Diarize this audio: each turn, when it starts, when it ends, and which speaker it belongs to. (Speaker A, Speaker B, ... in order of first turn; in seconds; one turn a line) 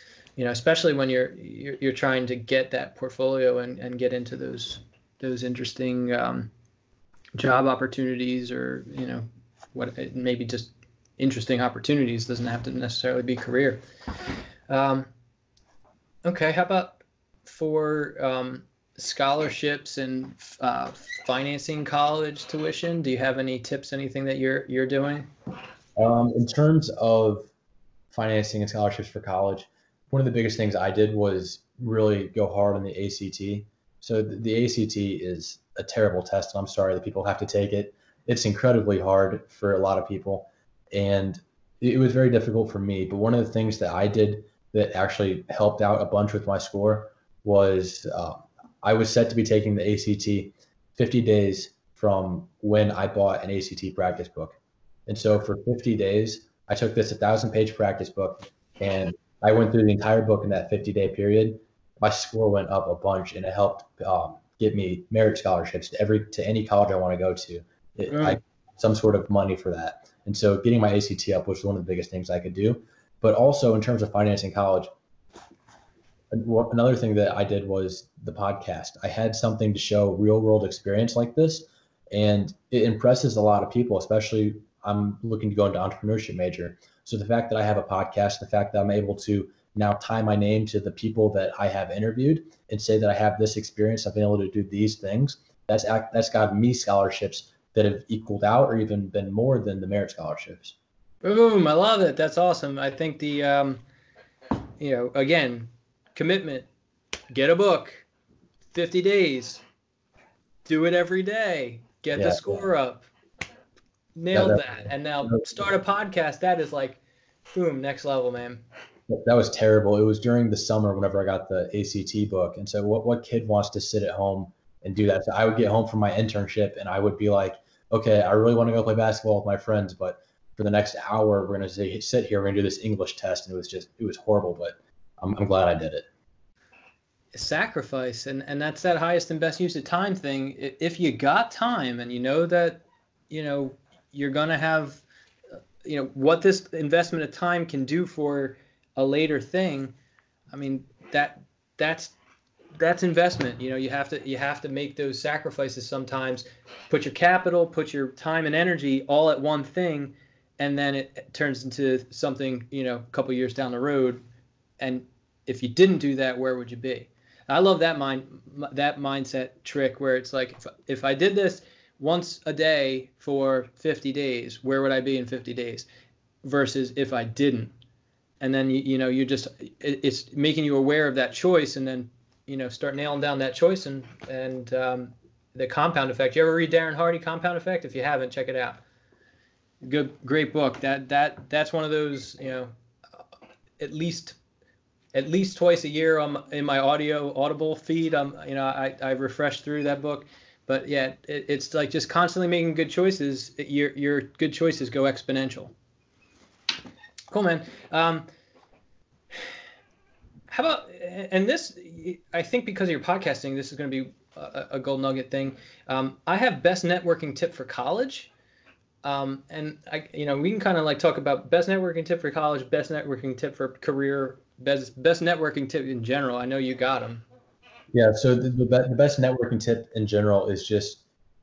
Speaker A: 0.4-6.5
Speaker A: 7.4-13.8
Speaker A: 14.7-15.1
Speaker A: 16.2-25.3
Speaker B: 26.0-27.5
Speaker B: 28.1-74.9
Speaker A: 68.1-68.4
Speaker B: 76.3-100.8
Speaker A: 101.2-103.8
Speaker A: 104.8-106.7
Speaker A: 107.3-108.1
Speaker A: 108.7-109.6
Speaker A: 110.7-113.1
Speaker B: 112.2-112.6
Speaker A: 114.2-117.0
Speaker B: 114.3-114.6
Speaker B: 115.2-115.5
Speaker A: 117.5-118.6
Speaker B: 119.1-136.1
Speaker A: 137.3-145.0
Speaker A: 145.8-149.9
Speaker A: 150.5-152.1
Speaker A: 152.8-164.2
Speaker A: 164.8-175.9
Speaker A: 176.4-177.7
Speaker A: 178.4-188.8
Speaker A: 189.8-192.7
Speaker A: 193.8-194.4
Speaker A: 195.1-205.7
Speaker A: 207.3-208.3
Speaker A: 210.5-218.3
Speaker A: 219.0-227.2
Speaker B: 227.9-231.0